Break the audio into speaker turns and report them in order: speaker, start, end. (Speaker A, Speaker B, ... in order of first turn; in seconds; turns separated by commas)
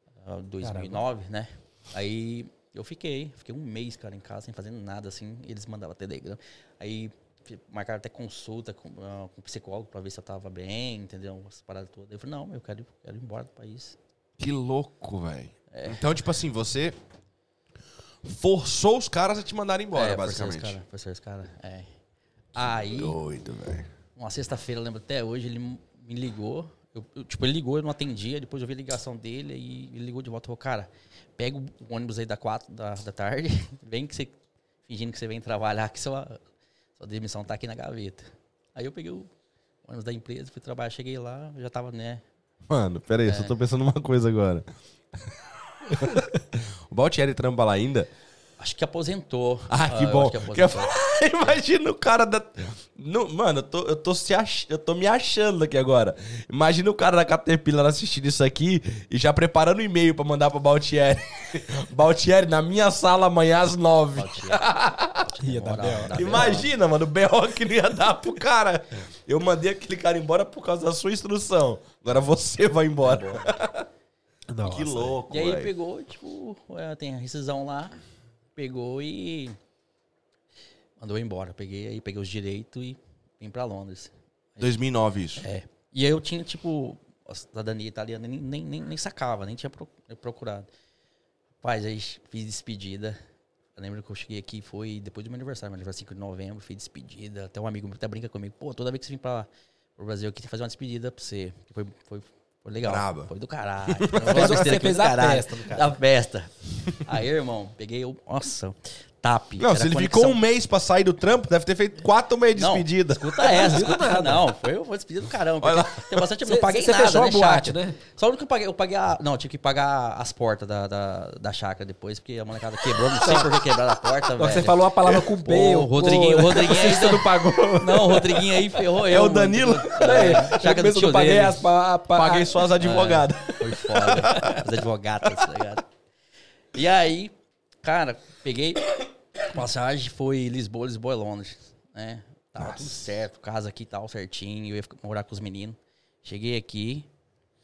Speaker A: 0.2-14.0, Speaker B: 0.6-1.0, Speaker C: 14.4-17.0, Speaker A: 15.7-16.0, Speaker C: 18.2-20.8, Speaker A: 19.9-21.9, Speaker A: 22.5-23.2, Speaker C: 22.9-23.9, Speaker A: 24.1-34.4, Speaker A: 34.9-36.4, Speaker A: 37.0-39.3, Speaker A: 39.8-42.2, Speaker C: 42.7-44.7, Speaker A: 43.2-43.5, Speaker C: 45.8-48.1, Speaker A: 48.6-51.6, Speaker C: 49.7-65.2, Speaker A: 64.1-66.7, Speaker B: 65.4-66.5, Speaker C: 66.1-73.8, Speaker A: 73.0-73.5, Speaker B: 74.5-75.2, Speaker C: 74.6-75.7, Speaker A: 75.3-78.0, Speaker A: 78.5-79.5, Speaker A: 81.0-84.7, Speaker C: 84.6-85.5, Speaker A: 85.4-90.7, Speaker A: 91.6-93.2, Speaker A: 93.8-110.4, Speaker C: 102.8-103.3, Speaker C: 103.9-104.7, Speaker B: 104.2-105.9, Speaker C: 109.6-113.8, Speaker A: 112.5-124.8, Speaker B: 113.4-114.5, Speaker C: 115.6-116.2, Speaker B: 116.4-118.0, Speaker B: 123.2-123.6, Speaker B: 124.3-128.5, Speaker A: 125.4-131.6, Speaker C: 126.8-127.9, Speaker C: 128.9-130.4, Speaker B: 129.9-132.7, Speaker C: 132.1-134.8, Speaker A: 132.8-135.8, Speaker A: 136.7-147.1, Speaker C: 142.6-143.0